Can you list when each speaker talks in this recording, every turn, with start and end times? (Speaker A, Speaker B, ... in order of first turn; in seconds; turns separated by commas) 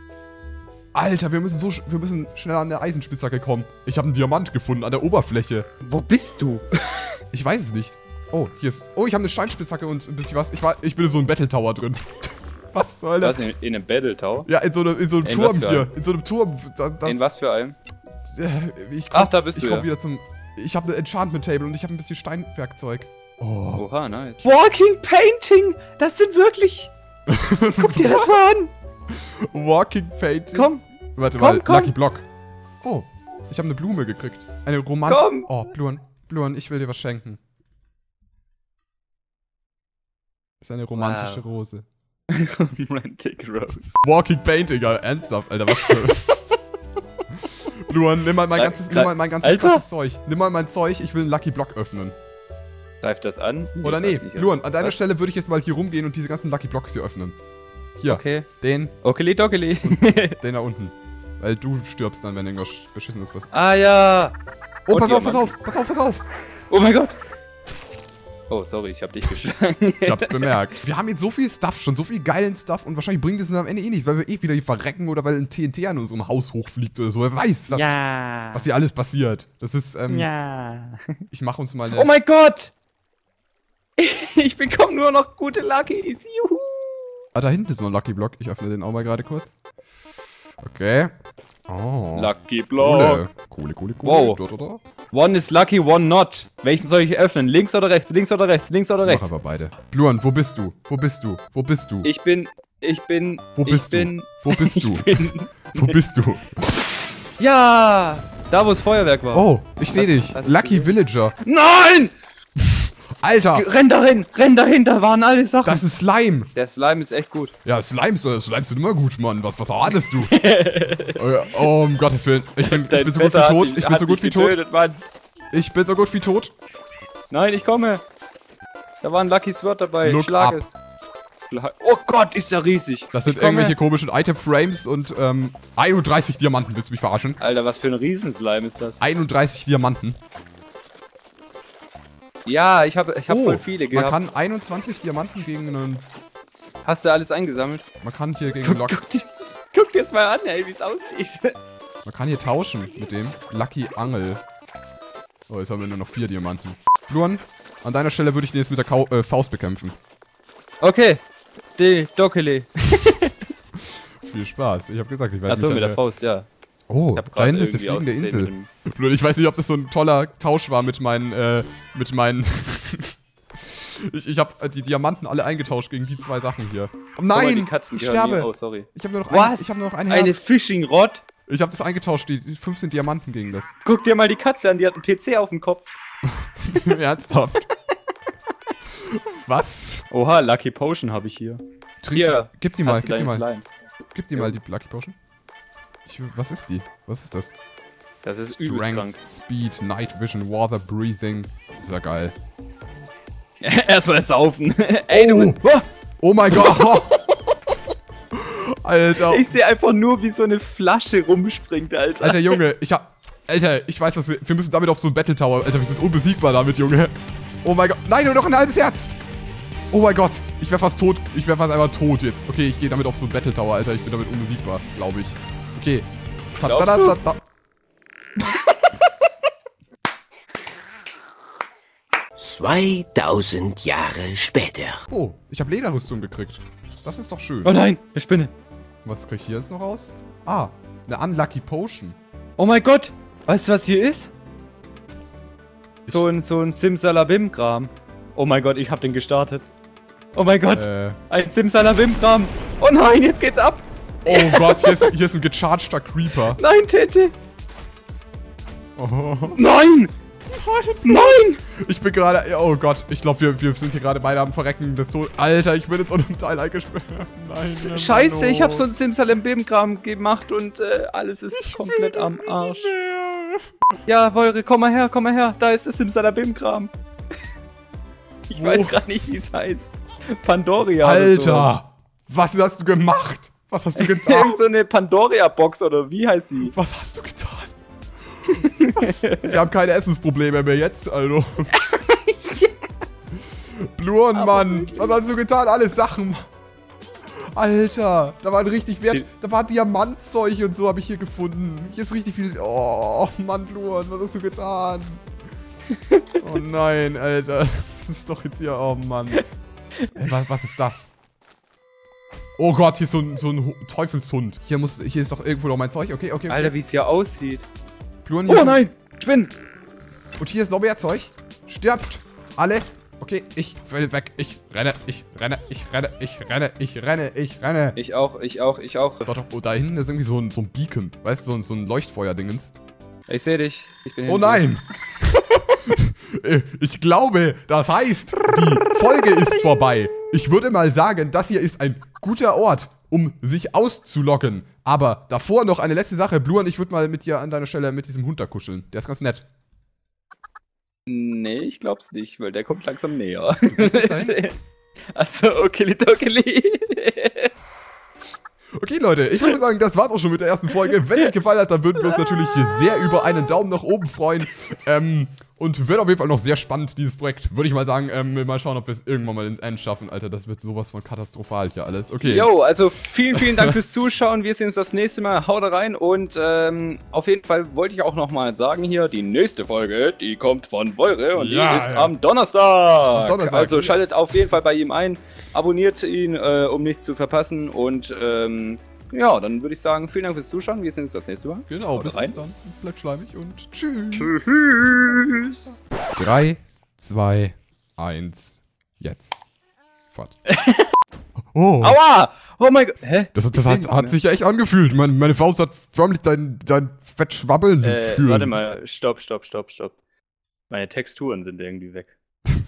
Speaker A: 0.9-5.7, Speaker B: 5.8-7.1, Speaker A: 7.3-13.4, Speaker B: 13.2-14.5, Speaker A: 14.4-17.3, Speaker B: 15.2-15.9, Speaker B: 17.0-17.8, Speaker A: 18.3-23.8, Speaker B: 19.1-19.9, Speaker B: 23.8-26.9, Speaker A: 27.3-28.5, Speaker B: 27.8-28.7, Speaker A: 29.1-32.2, Speaker B: 30.5-30.8, Speaker B: 31.4-31.9, Speaker A: 32.8-37.4, Speaker B: 35.1-35.5, Speaker A: 40.6-41.8, Speaker B: 41.0-41.4, Speaker B: 42.3-43.9, Speaker A: 44.0-46.4, Speaker A: 47.7-52.1, Speaker B: 48.5-49.8, Speaker B: 53.0-55.0, Speaker A: 53.8-57.4, Speaker A: 58.0-59.0, Speaker B: 58.1-58.5, Speaker B: 59.0-60.4, Speaker A: 59.8-63.5, Speaker B: 63.5-64.3, Speaker A: 64.9-66.2, Speaker B: 64.9-65.5, Speaker B: 66.7-67.1, Speaker B: 68.5-70.6, Speaker A: 70.0-78.0, Speaker B: 77.7-78.7, Speaker A: 78.5-80.3, Speaker B: 80.1-81.2, Speaker A: 81.3-82.1, Speaker B: 81.9-82.7, Speaker B: 84.0-87.2, Speaker A: 87.3-89.5, Speaker A: 90.6-91.1, Speaker A: 91.7-94.8, Speaker B: 92.1-93.2, Speaker B: 94.0-94.4, Speaker B: 95.1-99.3, Speaker A: 99.0-102.1, Speaker B: 102.0-106.0, Speaker A: 103.6-106.9, Speaker B: 107.4-112.1, Speaker A: 109.3-111.4, Speaker A: 112.6-113.7, Speaker B: 113.5-115.8, Speaker A: 115.6-116.5, Speaker B: 116.5-117.5, Speaker A: 117.6-120.3, Speaker B: 120.1-121.2, Speaker A: 121.0-124.6, Speaker B: 122.6-125.0, Speaker A: 125.5-126.5, Speaker B: 127.3-128.0, Speaker B: 129.0-130.8, Speaker A: 130.0-130.7, Speaker B: 131.5-133.8, Speaker A: 133.1-137.4, Speaker B: 137.4-139.0, Speaker A: 139.0-140.2, Speaker B: 142.4-144.2, Speaker A: 143.3-146.1, Speaker B: 146.8-147.8, Speaker A: 148.0-149.0, Speaker B: 148.6-151.6, Speaker A: 152.1-154.4, Speaker A: 155.5-159.9, Speaker B: 160.8-161.2, Speaker B: 161.8-163.3, Speaker A: 163.8-166.0, Speaker B: 165.5-166.5, Speaker A: 166.9-180.4, Speaker B: 167.2-168.7, Speaker B: 177.3-181.2, Speaker A: 181.5-183.7, Speaker B: 183.8-185.9, Speaker A: 186.2-187.7, Speaker A: 188.9-190.1, Speaker B: 190.1-191.6, Speaker A: 192.0-193.4, Speaker B: 192.1-193.7, Speaker A: 194.1-195.2, Speaker A: 196.1-197.5, Speaker B: 198.2-199.2, Speaker A: 198.5-202.3, Speaker B: 203.6-205.8, Speaker A: 205.1-205.6, Speaker A: 206.2-207.2, Speaker A: 208.3-209.5, Speaker B: 209.2-212.6, Speaker A: 212.2-219.1, Speaker A: 219.9-227.4, Speaker B: 226.6-227.2, Speaker C: 232.4-235.0, Speaker A: 235.1-237.7, Speaker B: 237.6-238.5, Speaker A: 239.0-242.2, Speaker B: 242.6-244.3, Speaker B: 246.1-249.7, Speaker B: 250.3-255.1, Speaker A: 250.7-251.2, Speaker A: 254.2-256.6, Speaker B: 256.5-257.3, Speaker A: 259.0-259.6, Speaker B: 259.5-260.1, Speaker A: 260.5-268.9, Speaker B: 261.0-261.6, Speaker B: 267.6-272.9, Speaker A: 271.6-273.6, Speaker B: 274.1-276.9, Speaker B: 278.5-281.7, Speaker A: 278.5-279.1, Speaker A: 281.0-284.6, Speaker B: 283.9-286.7, Speaker A: 286.6-287.7, Speaker A: 288.5-291.7, Speaker B: 288.5-289.6, Speaker B: 291.8-292.7, Speaker A: 293.5-296.4, Speaker B: 294.3-295.2, Speaker A: 297.4-305.2, Speaker A: 306.4-309.5, Speaker A: 310.1-311.1, Speaker A: 312.6-316.7, Speaker B: 316.5-317.6, Speaker A: 318.2-318.8, Speaker B: 318.5-319.5, Speaker A: 320.4-328.0, Speaker B: 327.9-329.3, Speaker A: 329.2-332.7, Speaker B: 333.3-334.7, Speaker A: 334.3-349.4, Speaker B: 351.1-354.6, Speaker A: 353.7-354.4, Speaker B: 355.1-357.5, Speaker A: 358.8-372.5, Speaker B: 360.8-361.3, Speaker B: 362.0-362.8, Speaker B: 372.2-392.4, Speaker A: 373.3-373.7, Speaker A: 381.3-382.1, Speaker A: 383.1-384.3, Speaker A: 391.7-394.7, Speaker B: 394.2-395.7, Speaker A: 396.1-399.4, Speaker A: 400.1-400.4, Speaker B: 400.5-400.9, Speaker A: 401.5-402.0, Speaker B: 401.8-404.2, Speaker A: 403.3-408.6, Speaker B: 407.8-409.9, Speaker B: 410.7-412.1